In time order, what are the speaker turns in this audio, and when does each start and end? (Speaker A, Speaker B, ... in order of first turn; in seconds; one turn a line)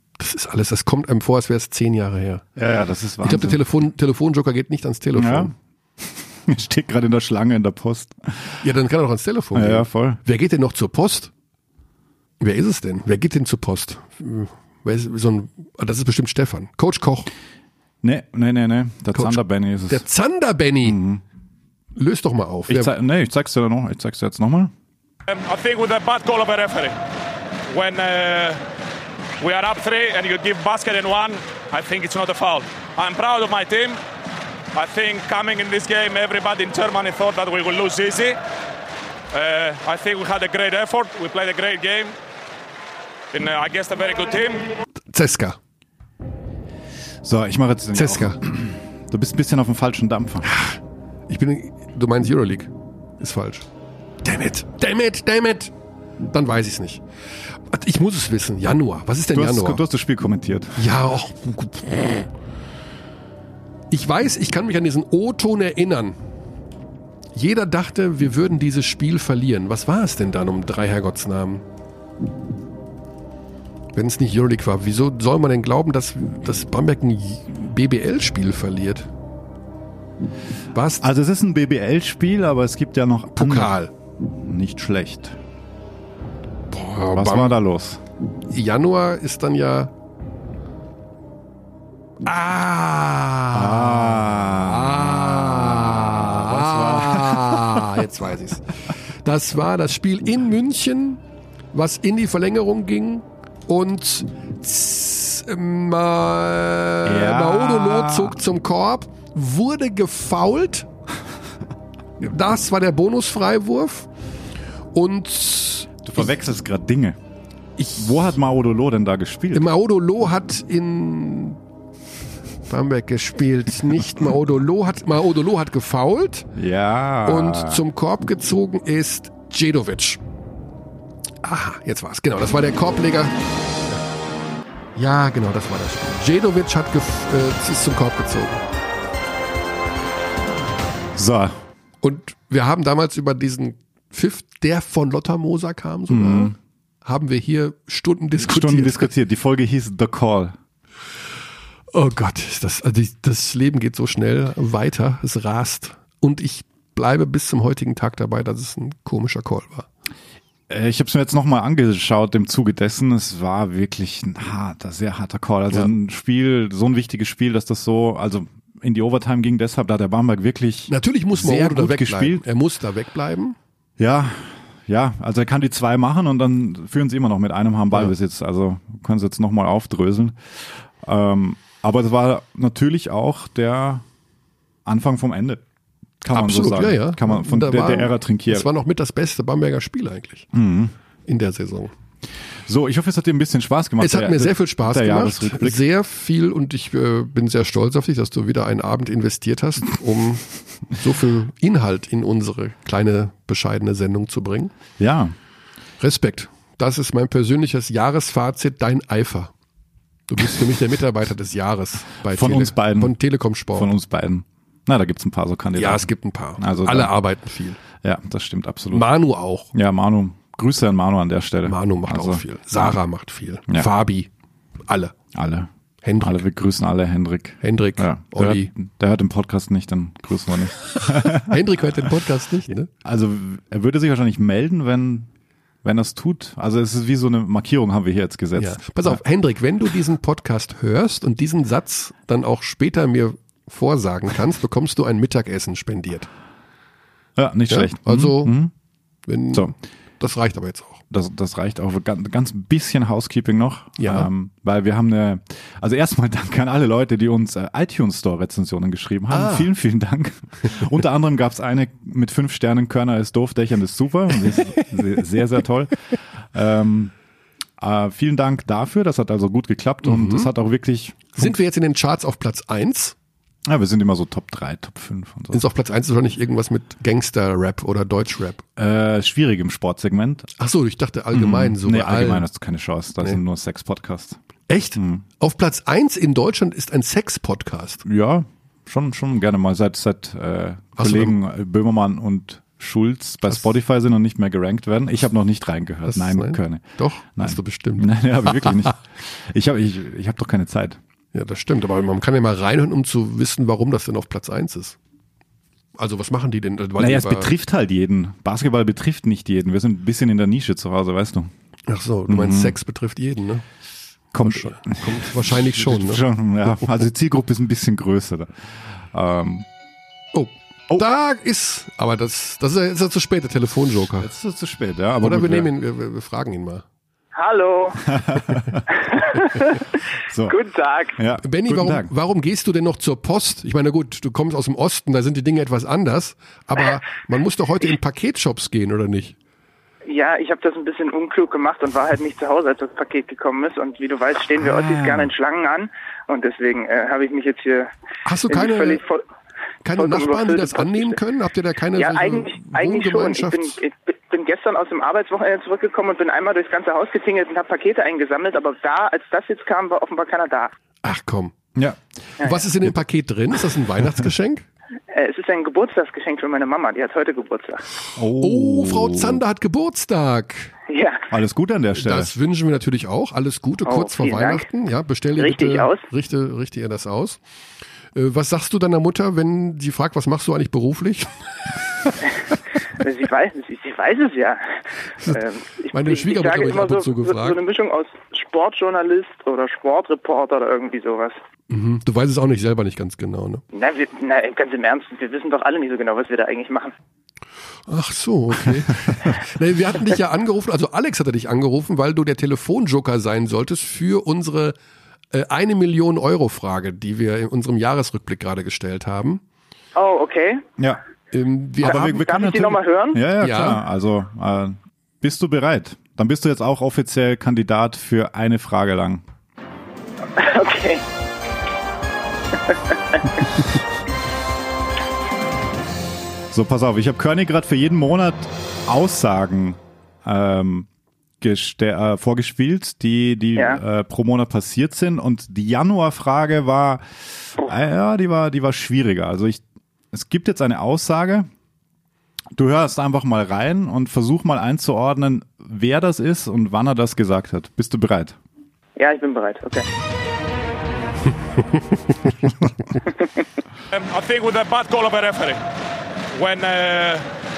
Speaker A: 0.2-2.5
Speaker B: 2.6-3.6
Speaker A: 3.2-5.5
Speaker B: 5.2-8.6
Speaker A: 8.6-11.3
Speaker B: 9.5-10.2
Speaker A: 12.4-17.3
Speaker B: 18.0-20.1
Speaker A: 19.1-21.0
Speaker B: 20.8-21.2
Speaker A: 21.9-22.9
Speaker B: 22.7-24.7
Speaker C: 25.3-26.9
Speaker C: 27.7-28.6
Speaker C: 29.4-34.0
Speaker C: 34.7-38.4
Speaker C: 39.3-42.1
Speaker C: 43.3-44.7
Speaker A: 45.1-45.6
Speaker B: 47.2-50.5
Speaker A: 47.9-48.4
Speaker A: 50.4-50.8
Speaker A: 51.3-53.7
Speaker A: 54.2-55.7
Speaker A: 56.3-57.0
Speaker A: 57.7-59.8
Speaker B: 59.3-60.9
Speaker A: 60.8-62.3
Speaker A: 63.9-66.2
Speaker A: 67.3-71.6
Speaker A: 73.9-79.1
Speaker A: 80.7-81.1
Speaker B: 81.0-83.8
Speaker A: 83.3-83.9
Speaker B: 84.4-85.4
Speaker A: 86.7-87.6
Speaker B: 87.1-88.0
Speaker A: 88.5-89.9
Speaker A: 92.2-101.2
Speaker B: 93.5-97.9
Speaker A: 101.7-110.9
Speaker B: 107.0-108.4
Speaker A: 112.2-114.1
Speaker A: 114.9-116.0
Speaker B: 116.0-117.2
Speaker B: 118.0-119.7
Speaker A: 119.5-121.6
Speaker A: 122.7-126.5
Speaker B: 126.5-127.8
Speaker A: 127.2-130.2
Speaker A: 131.4-134.0
Speaker A: 135.0-138.6
Speaker B: 141.2-141.6
Speaker A: 142.0-146.5
Speaker B: 146.1-146.6
Speaker A: 147.1-149.1
Speaker B: 148.4-150.6
Speaker A: 151.9-159.9
Speaker B: 160.7-172.4
Speaker A: 170.9-173.6
Speaker B: 174.0-184.1
Speaker B: 184.9-185.6
Speaker B: 186.2-188.7
Speaker A: 186.3-190.5
Speaker B: 190.5-190.9
Speaker A: 191.3-191.9
Speaker B: 192.7-195.8
Speaker A: 194.0-204.7
Speaker B: 205.0-205.3
Speaker A: 206.0-209.5
Speaker A: 210.3-213.9
Speaker B: 212.3-213.2
Speaker B: 213.7-217.1
Speaker A: 215.8-217.8
Speaker B: 218.0-219.1
Speaker A: 218.9-219.7
Speaker B: 219.7-222.9
Speaker A: 221.7-224.3
Speaker A: 224.9-225.1
Speaker B: 225.3-231.6
Speaker A: 226.0-226.4
Speaker A: 227.6-228.7
Speaker A: 231.2-232.9
Speaker B: 233.0-235.3
Speaker B: 235.8-239.2
Speaker A: 238.6-246.3
Speaker B: 247.4-248.7
Speaker A: 247.7-248.6
Speaker A: 249.3-251.0
Speaker B: 251.1-266.0
Speaker A: 254.0-254.3
Speaker A: 259.3-259.7
Speaker B: 266.5-267.1
Speaker B: 267.8-271.6
Speaker A: 270.0-270.5
Speaker A: 271.4-273.2
Speaker B: 273.7-275.6
Speaker A: 275.5-278.6
Speaker B: 278.8-280.5
Speaker A: 280.6-282.5
Speaker B: 281.3-284.4
Speaker A: 284.7-288.0
Speaker B: 285.0-285.2
Speaker B: 288.1-296.9
Speaker A: 291.0-291.4
Speaker A: 296.1-298.8
Speaker B: 297.4-301.0
Speaker A: 301.3-305.0
Speaker A: 306.0-307.5
Speaker B: 307.0-311.5
Speaker A: 311.9-313.6
Speaker B: 312.3-312.8
Speaker B: 314.3-318.5
Speaker A: 314.4-316.2
Speaker B: 319.1-319.7
Speaker A: 320.3-324.3
Speaker B: 324.2-325.7
Speaker A: 325.2-326.8
Speaker D: 327.4-328.0
Speaker B: 328.1-328.8
Speaker D: 329.0-329.8
Speaker B: 330.3-330.6
Speaker D: 330.5-331.2
Speaker B: 331.2-332.1
Speaker A: 331.4-339.4
Speaker D: 340.1-347.9
Speaker A: 344.8-345.3
Speaker A: 348.3-349.0
Speaker D: 348.5-349.2
Speaker A: 349.9-353.7
Speaker D: 349.9-351.2
Speaker D: 352.0-360.7
Speaker A: 361.0-361.5
Speaker B: 361.8-362.0
Speaker A: 362.4-364.6
Speaker D: 365.1-367.8
Speaker B: 368.2-369.4
Speaker A: 368.4-370.7
Speaker D: 370.9-371.2
Speaker B: 371.3-372.3
Speaker A: 371.9-377.4
Speaker D: 373.8-374.7
Speaker D: 375.4-376.1
Speaker A: 378.1-381.3
Speaker D: 383.0-384.7
Speaker D: 385.2-391.4
Speaker A: 385.9-387.6
Speaker A: 391.7-393.6
Speaker D: 393.7-396.9
Speaker A: 397.9-404.8
Speaker A: 405.3-409.4
Speaker D: 410.0-410.6
Speaker A: 411.3-412.2
Speaker B: 411.8-419.2
Speaker D: 411.9-413.2
Speaker A: 413.4-413.8
Speaker D: 420.4-421.0
Speaker B: 426.5-430.9
Speaker B: 431.4-441.5
Speaker B: 442.5-448.4
Speaker D: 449.0-449.9
Speaker C: 453.9-455.6
Speaker C: 456.3-457.2